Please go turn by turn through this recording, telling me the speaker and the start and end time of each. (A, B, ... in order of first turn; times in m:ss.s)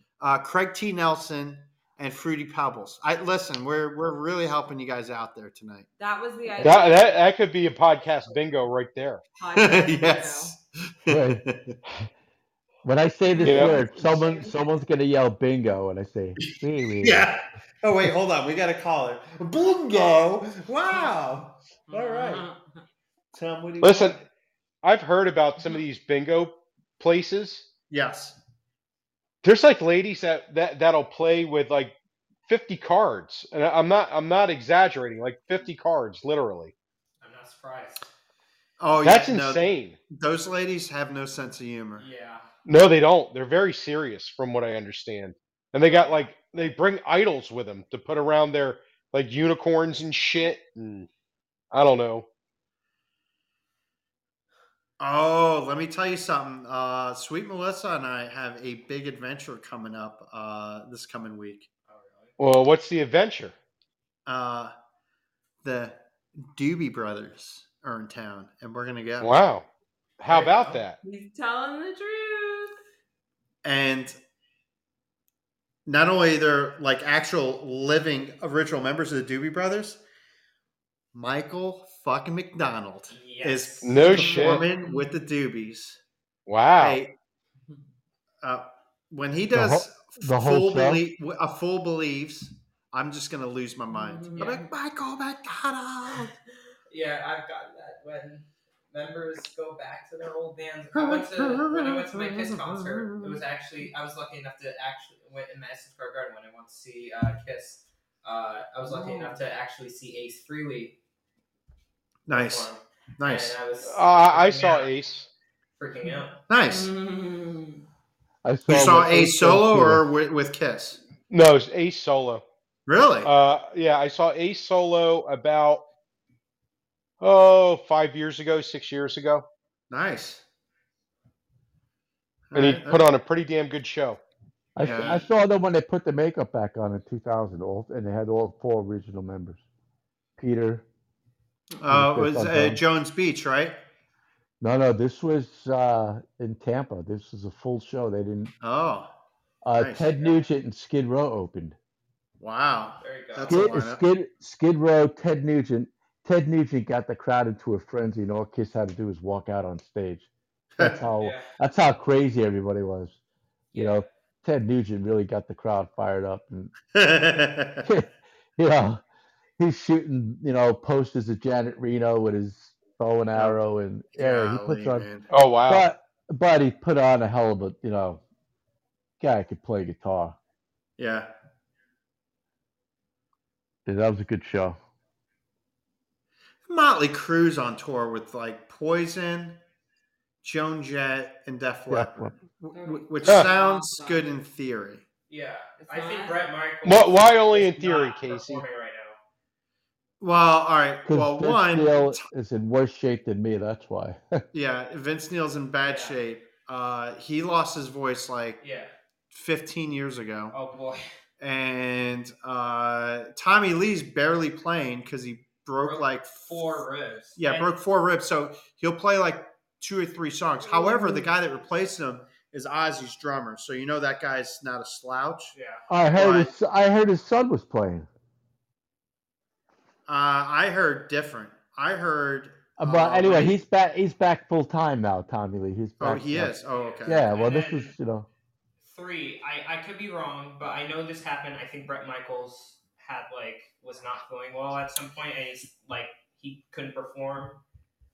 0:00.2-0:05.9 A
0:06.0-0:07.2 B
0:06.6-0:09.2 C
0:09.4-0:10.5 B
0:09.5-0:11.8 A
0:11.1-0:11.4 D
0:12.8-0:17.3 D
0:13.3-0:14.6 B
0:13.4-0:13.8 C
0:17.0-0:22.5 A
0:21.9-0:22.6 B
0:23.3-0:24.2 A
0:23.8-0:24.2 C
0:24.8-0:27.7 C
0:27.9-0:28.4 A
0:29.4-0:31.9 C
0:32.5-0:36.7 C
0:37.2-0:38.1 E
0:38.8-0:42.1 A
0:39.0-0:40.0 C
0:42.0-0:42.5 E
0:42.7-0:51.1 C
0:45.9-0:46.3 E
0:51.7-0:52.3 C
0:55.0-1:01.7 A
1:01.9-1:02.3 E
1:02.4-1:03.6 C
1:04.3-1:04.7 A
1:05.6-1:06.0 A
1:06.5-1:09.4 A
1:09.2-1:09.7 C
1:10.2-1:11.0 C
1:10.3-1:10.8 A
1:11.0-1:12.8 B
1:13.6-1:14.2 A
1:15.9-1:20.0 A
1:21.1-1:26.0 A
1:23.1-1:24.2 E
1:23.8-1:24.7 C
1:24.1-1:25.0 B
1:26.5-1:27.0 C
1:26.8-1:27.1 A
1:28.4-1:36.3 A
1:29.5-1:31.0 D
1:33.9-1:34.7 B
1:36.9-1:51.0 E
1:41.0-1:43.4 A
1:48.9-1:49.4 B
1:52.3-1:53.6 A
1:52.3-1:54.9 E
1:53.8-1:55.3 C
1:55.8-1:56.4 E
1:56.0-1:57.8 B
1:56.5-1:56.9 A
1:58.4-2:00.0 D
1:58.7-2:01.0 A
2:01.3-2:02.4 C
2:02.9-2:03.3 A
2:03.2-2:05.8 C
2:07.2-2:09.5 C
2:09.9-2:10.4 A
2:12.5-2:13.1 A
2:12.5-2:14.2 C
2:14.8-2:19.6 D
2:14.8-2:15.2 A
2:14.8-2:15.2 E
2:20.4-2:20.8 D
2:21.8-2:23.8 A
2:21.9-2:22.8 D
2:24.6-2:28.5 D
2:28.6-2:29.1 A
2:29.6-2:31.8 D
2:29.8-2:30.1 A
2:32.4-2:34.0 A
2:33.0-2:33.6 E
2:33.5-2:40.3 D
2:40.8-2:43.2 D
2:41.2-2:41.5 E
2:43.7-2:44.1 E
2:43.7-2:46.7 D
2:46.9-2:47.9 A
2:47.8-2:49.0 D
2:49.6-2:55.1 D
2:54.2-2:55.3 A
2:55.3-2:55.9 C
2:55.7-2:58.2 D
2:59.2-3:00.4 D
3:01.0-3:01.3 A
3:03.9-3:04.8 D
3:06.7-3:09.6 A
3:10.4-3:15.0 A
3:11.9-3:12.3 D
3:12.7-3:14.3 B
3:15.3-3:19.2 E
3:15.8-3:16.4 B
3:16.8-3:18.6 C
3:20.2-3:22.2 A
3:21.1-3:24.4 D
3:24.5-3:28.6 A
3:25.9-3:26.2 E
3:28.6-3:28.9 E
3:29.3-3:30.6 A
3:30.5-3:31.0 E
3:31.4-3:36.6 A
3:35.8-3:37.7 E
3:37.4-3:45.5 A
3:40.7-3:41.3 B
3:45.5-3:45.8 E
3:45.9-3:48.1 D
3:46.2-3:46.5 A
3:50.1-3:53.6 A
3:52.8-3:58.3 D
3:56.0-3:57.3 A
3:56.8-3:57.9 E
3:58.8-4:07.6 E